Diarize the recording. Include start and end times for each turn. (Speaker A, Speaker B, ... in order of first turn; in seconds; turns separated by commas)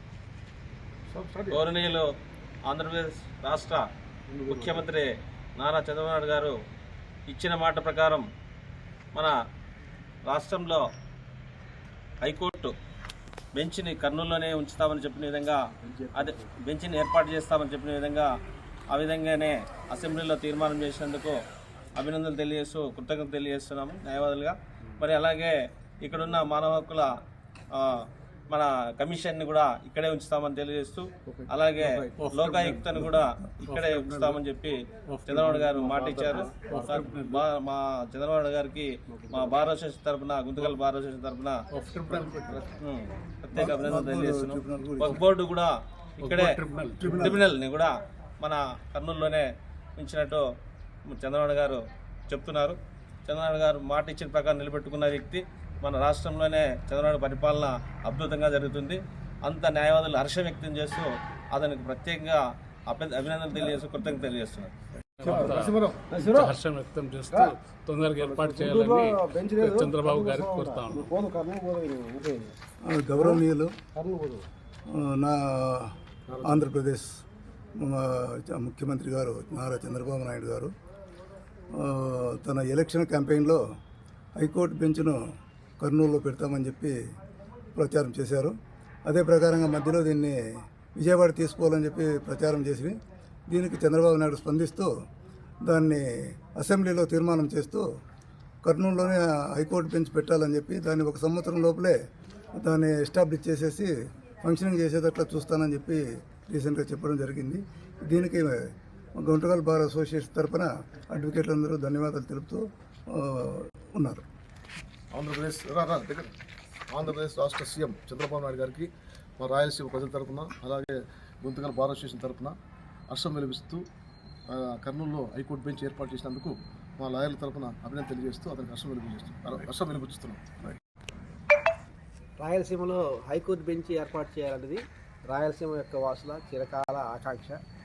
Speaker A: 1.1-1.6, Speaker B: 1.5-2.1, Speaker B: 2.6-3.8, Speaker A: 4.3-4.8, Speaker B: 4.5-6.5, Speaker B: 7.3-8.2, Speaker B: 10.2-10.8, Speaker B: 12.2-12.7, Speaker B: 13.5-18.3, Speaker A: 15.8-16.2, Speaker B: 18.9-21.4, Speaker B: 21.9-27.1, Speaker B: 27.7-41.6, Speaker A: 31.3-32.1, Speaker C: 32.2-32.9, Speaker C: 33.6-34.3, Speaker C: 35.0-37.4, Speaker C: 41.7-42.7, Speaker B: 42.6-49.5, Speaker D: 43.5-45.2, Speaker C: 46.2-47.4, Speaker D: 47.0-47.4, Speaker B: 50.0-50.4, Speaker B: 51.1-64.7, Speaker A: 65.2-66.5, Speaker C: 65.2-71.1, Speaker A: 68.2-72.5, Speaker D: 72.8-73.7, Speaker A: 73.9-74.4, Speaker D: 74.9-77.2, Speaker A: 76.3-76.7, Speaker D: 77.8-80.7, Speaker D: 81.7-83.6, Speaker D: 84.4-85.2, Speaker D: 85.8-87.0, Speaker D: 87.7-93.0, Speaker D: 93.5-94.9, Speaker D: 95.6-97.8, Speaker D: 98.6-102.0, Speaker D: 102.5-103.9, Speaker D: 104.4-108.6, Speaker D: 109.2-114.2, Speaker A: 115.1-116.3, Speaker A: 116.9-122.5, Speaker A: 123.1-123.8, Speaker A: 124.5-130.8, Speaker E: 132.4-137.6